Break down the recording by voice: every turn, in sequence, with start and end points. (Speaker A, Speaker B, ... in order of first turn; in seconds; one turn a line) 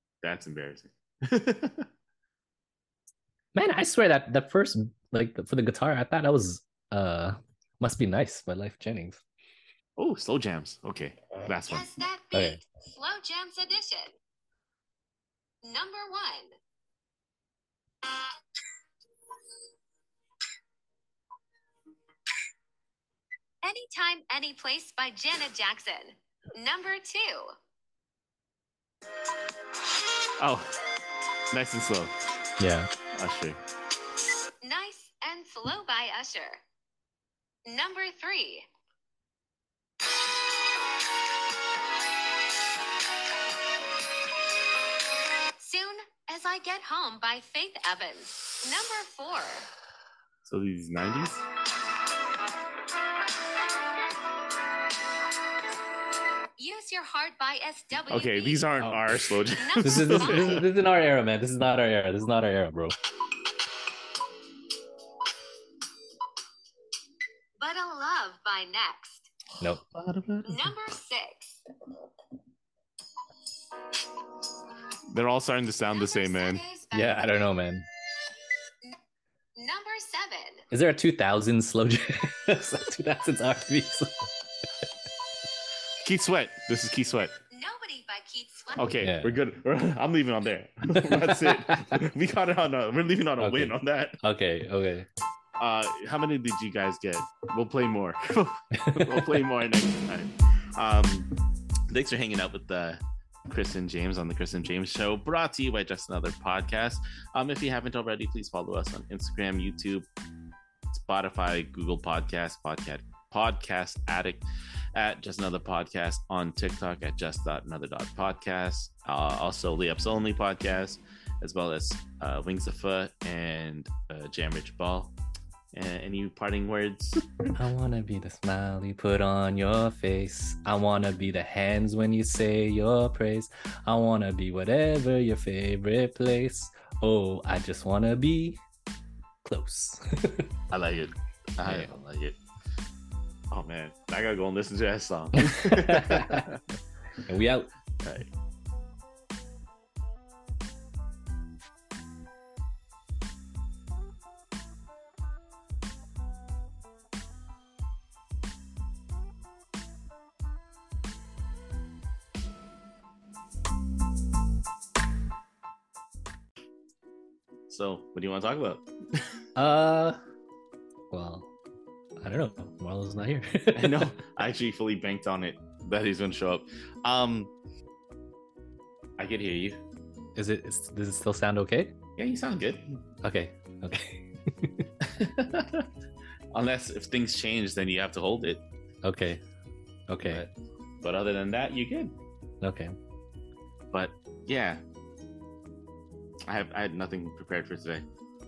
Speaker A: 0.2-1.9
Speaker B: 3.5-9.2
Speaker A: 10.0-11.9
Speaker C: 11.7-14.1
Speaker B: 12.3-12.6
Speaker C: 15.6-16.5
Speaker C: 23.6-27.5
Speaker A: 30.4-30.7
Speaker A: 31.5-32.1
Speaker B: 32.6-32.9
Speaker A: 33.1-33.6
Speaker C: 34.6-36.6
Speaker C: 37.6-38.6
Speaker C: 45.6-49.7
Speaker A: 50.4-51.4
Speaker C: 56.6-58.7
Speaker A: 58.1-60.6
Speaker C: 59.5-60.7
Speaker B: 59.8-63.0
Speaker C: 67.6-69.3
Speaker A: 69.9-70.7
Speaker C: 70.4-71.6
Speaker A: 75.1-76.6
Speaker C: 75.9-77.4
Speaker B: 76.9-77.8
Speaker C: 79.5-80.6
Speaker B: 80.7-84.2
Speaker A: 86.0-87.3
Speaker C: 87.5-89.0
Speaker A: 88.8-94.2
Speaker B: 89.0-89.4
Speaker B: 91.0-92.0
Speaker B: 93.4-95.1
Speaker A: 95.6-101.3
Speaker B: 98.8-99.5
Speaker A: 101.9-110.1
Speaker A: 110.9-125.1
Speaker A: 125.7-127.5
Speaker B: 127.5-138.6
Speaker B: 139.4-140.5
Speaker A: 140.7-142.4
Speaker B: 141.6-141.9
Speaker A: 143.5-146.6
Speaker B: 145.4-146.5
Speaker B: 147.2-147.7
Speaker A: 148.0-148.3
Speaker A: 167.7-168.9
Speaker B: 169.6-170.2
Speaker B: 171.1-171.5
Speaker B: 172.2-174.1
Speaker A: 173.7-177.5
Speaker A: 179.2-179.8
Speaker B: 180.3-181.9
Speaker A: 182.2-183.0
Speaker B: 183.2-184.9
Speaker A: 185.0-185.9
Speaker A: 186.5-188.6
Speaker B: 189.0-189.4
Speaker B: 190.1-190.4
Speaker A: 190.2-192.2
Speaker B: 192.6-192.9
Speaker A: 193.9-194.8
Speaker A: 196.5-198.1